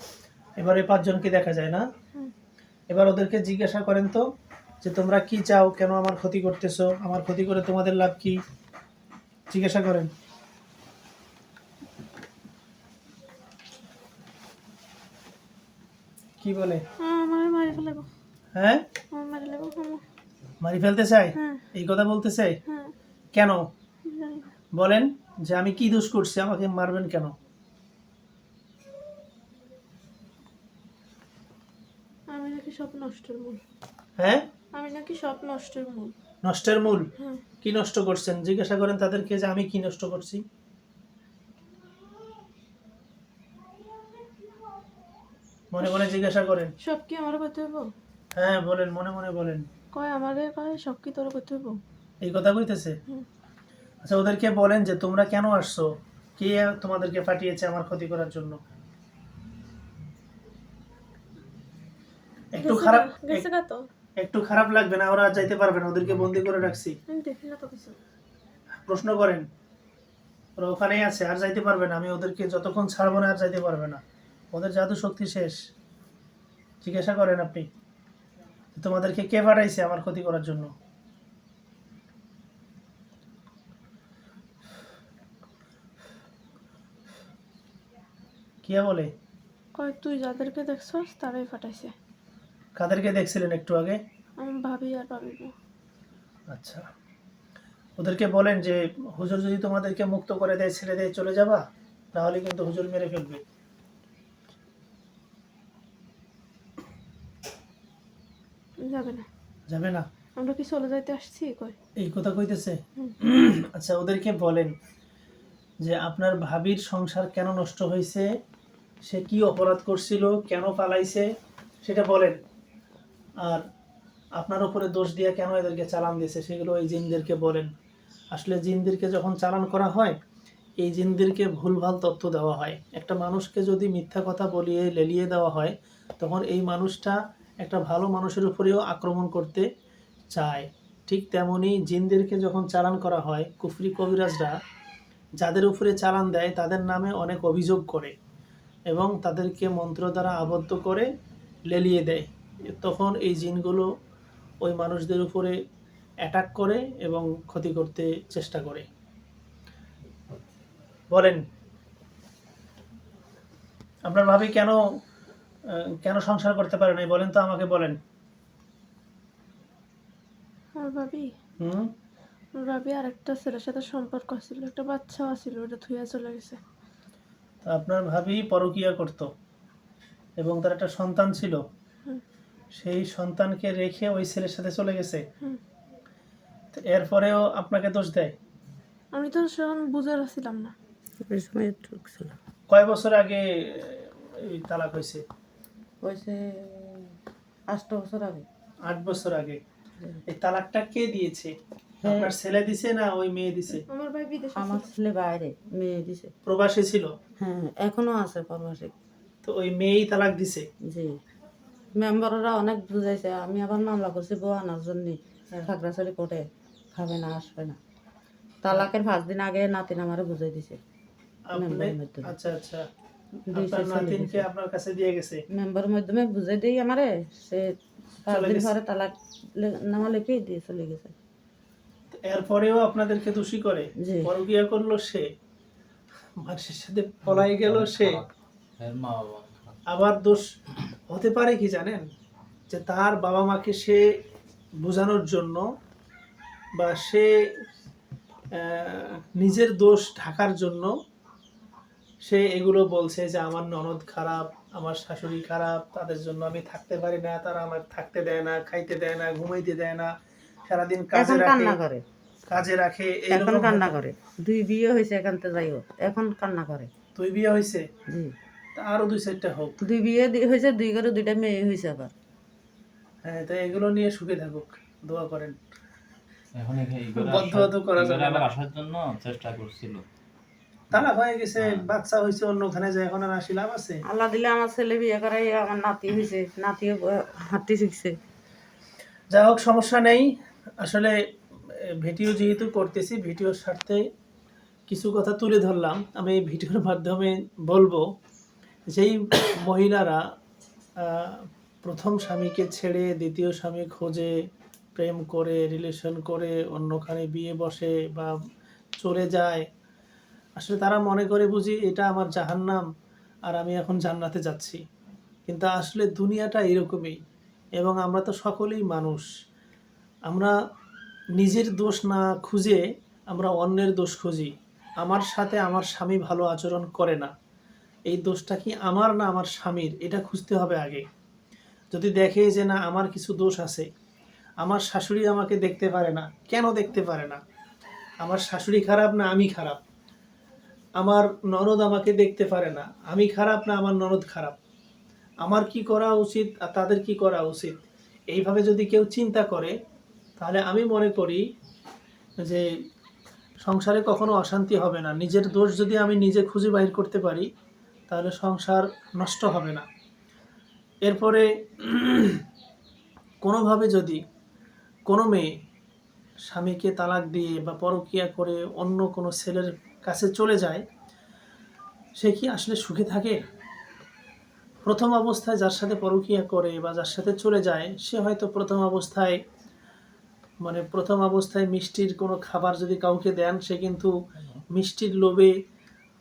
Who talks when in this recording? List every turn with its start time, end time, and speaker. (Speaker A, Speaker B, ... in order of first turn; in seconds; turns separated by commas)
Speaker A: 0.6-1.9, Speaker A: 2.9-4.2, Speaker A: 4.8-8.4, Speaker A: 9.5-10.1, Speaker A: 16.4-16.8, Speaker B: 17.0-18.1, Speaker A: 18.6-18.9, Speaker B: 19.1-20.0, Speaker A: 20.6-22.6, Speaker B: 21.4-21.7, Speaker B: 22.7-22.9, Speaker A: 23.3-23.7, Speaker B: 24.1-24.5, Speaker A: 24.7-27.4, Speaker B: 32.3-33.6, Speaker A: 34.2-34.4, Speaker B: 34.7-36.1, Speaker A: 36.4-37.1, Speaker B: 37.2-37.4, Speaker A: 37.6-40.4, Speaker A: 45.7-46.7, Speaker B: 46.8-47.9, Speaker A: 48.4-49.7, Speaker B: 49.9-51.8, Speaker A: 52.2-53.0, Speaker A: 54.0-58.6, Speaker A: 62.5-63.5, Speaker B: 62.6-63.9, Speaker A: 64.2-67.0, Speaker C: 66.0-66.8, Speaker B: 67.1-68.0, Speaker A: 68.9-69.5, Speaker A: 70.6-74.0, Speaker A: 74.5-75.6, Speaker A: 76.8-77.7, Speaker A: 78.8-80.7, Speaker A: 88.7-89.1, Speaker B: 89.8-91.9, Speaker A: 92.8-94.0, Speaker B: 94.4-95.5, Speaker A: 96.5-96.9, Speaker A: 98.0-101.6, Speaker A: 102.1-103.4, Speaker B: 108.8-109.3, Speaker A: 109.7-110.1, Speaker B: 110.4-111.8, Speaker A: 112.0-114.8, Speaker A: 115.8-118.3, Speaker A: 119.0-121.3, Speaker A: 121.8-122.4, Speaker A: 124.4-127.7, Speaker A: 128.3-130.2, Speaker A: 130.8-139.7, Speaker A: 140.3-144.6, Speaker A: 145.4-148.1, Speaker A: 148.9-151.1, Speaker A: 151.7-153.9, Speaker A: 154.6-155.6, Speaker A: 156.2-158.9, Speaker A: 161.1-161.4, Speaker A: 164.1-164.8, Speaker A: 165.7-168.0, Speaker B: 170.8-171.3, Speaker A: 171.6-171.9, Speaker B: 172.6-176.6, Speaker A: 177.7-179.3, Speaker A: 180.4-181.6, Speaker A: 182.8-185.2, Speaker A: 186.7-188.3, Speaker B: 189.1-190.7, Speaker D: 191.2-192.3, Speaker A: 192.7-195.2, Speaker D: 196.0-197.2, Speaker D: 197.7-198.5, Speaker A: 198.9-199.6, Speaker A: 200.3-201.5, Speaker D: 202.0-202.3, Speaker A: 202.1-203.8, Speaker B: 203.9-204.9, Speaker D: 204.6-206.3, Speaker A: 206.5-207.1, Speaker D: 207.4-208.9, Speaker A: 209.4-210.7, Speaker D: 210.8-211.2, Speaker D: 212.0-217.8, Speaker D: 218.6-220.8, Speaker A: 221.5-222.8, Speaker D: 221.6-222.3, Speaker D: 223.5-224.5, Speaker A: 223.5-225.4, Speaker D: 225.5-231.2, Speaker A: 228.3-228.7, Speaker A: 232.1-235.3, Speaker D: 234.0-234.3, Speaker A: 236.4-238.2, Speaker C: 237.3-239.8, Speaker A: 239.9-240.5, Speaker A: 241.1-242.1, Speaker A: 242.7-244.0, Speaker A: 244.8-245.7, Speaker A: 246.8-247.3, Speaker A: 248.5-250.9, Speaker A: 252.2-260.1, Speaker A: 260.7-261.8, Speaker D: 261.1-262.0, Speaker A: 262.5-264.0, Speaker D: 263.3-266.9, Speaker A: 267.2-267.9, Speaker D: 268.1-268.3, Speaker A: 268.8-269.8, Speaker D: 269.8-272.1, Speaker A: 273.2-275.6, Speaker C: 276.6-280.0, Speaker A: 277.2-278.5, Speaker A: 280.9-284.0, Speaker C: 281.6-281.9, Speaker D: 284.1-288.2, Speaker A: 289.3-291.2, Speaker A: 291.7-294.0, Speaker A: 294.9-298.1, Speaker A: 298.9-300.2, Speaker A: 301.0-304.3, Speaker A: 305.0-308.3, Speaker A: 309.0-309.6, Speaker A: 310.6-312.9, Speaker A: 313.5-314.8, Speaker A: 315.5-317.2, Speaker A: 317.8-319.3, Speaker A: 320.3-320.6, Speaker A: 321.4-327.3, Speaker A: 328.1-331.1, Speaker A: 331.9-333.9, Speaker A: 334.6-337.4, Speaker A: 338.2-339.8, Speaker A: 341.0-344.6, Speaker A: 345.4-349.8, Speaker A: 350.4-351.4, Speaker A: 353.6-357.5, Speaker A: 358.1-359.9, Speaker A: 361.1-362.4, Speaker A: 363.4-364.2, Speaker A: 365.1-365.5, Speaker A: 366.5-370.9, Speaker A: 372.2-373.4, Speaker A: 374.9-379.4, Speaker A: 380.6-384.1, Speaker C: 384.3-384.6, Speaker A: 384.7-385.5